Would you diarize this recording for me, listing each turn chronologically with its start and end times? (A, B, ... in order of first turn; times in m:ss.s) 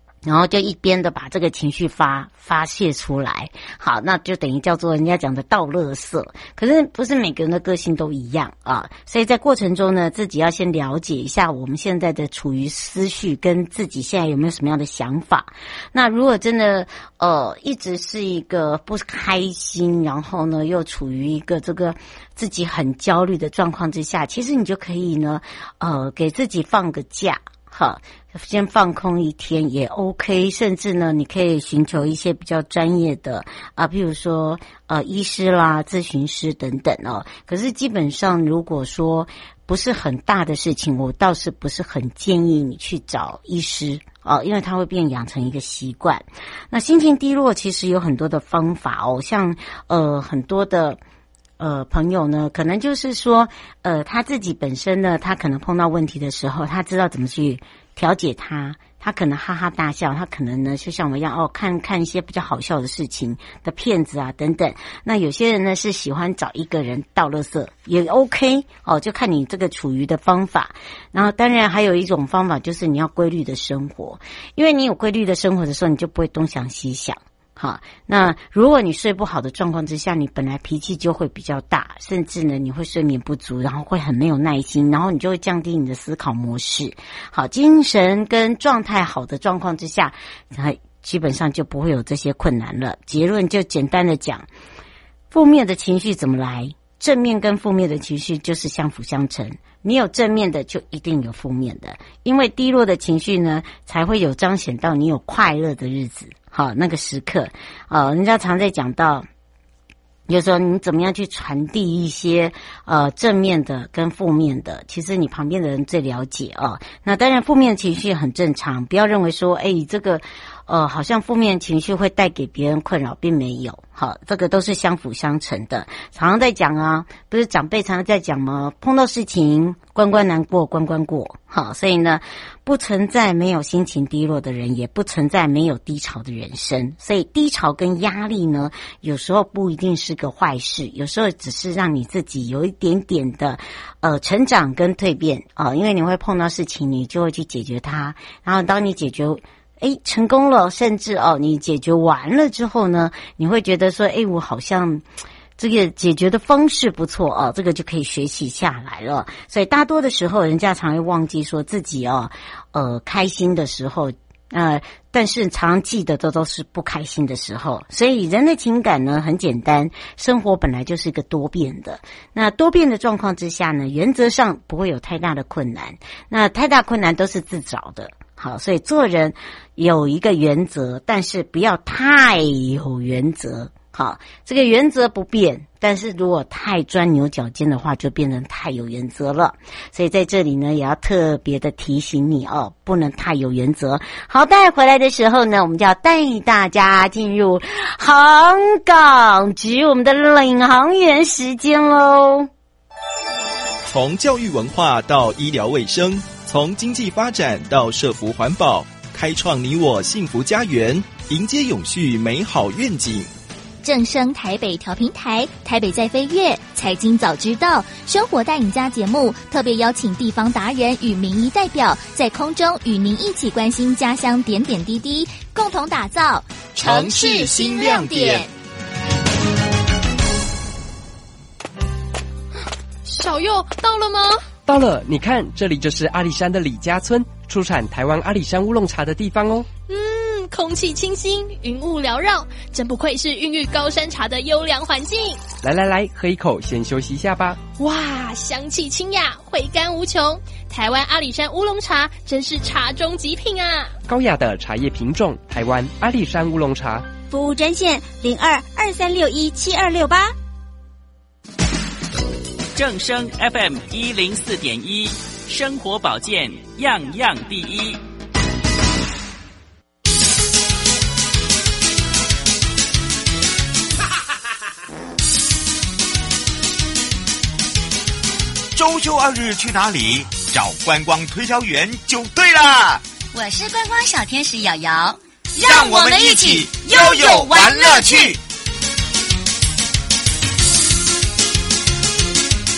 0:00.3-0:51.0 A
0:51.6-1:34.5 A
1:35.3-1:49.3 A
1:50.3-2:35.0 A
2:35.6-3:22.5 A
3:23.8-3:33.3 B
3:33.8-3:48.5 C
3:46.8-3:48.5 B
3:53.1-3:54.5 D
3:54.6-3:59.7 E
3:59.9-4:05.5 D
4:05.6-4:07.6 E
4:07.7-4:13.9 D
4:14.1-4:17.1 E
4:17.3-4:20.3 F
4:22.8-4:28.0 G
4:38.7-4:43.0 H
4:43.3-4:48.4 F
4:45.6-4:48.4 H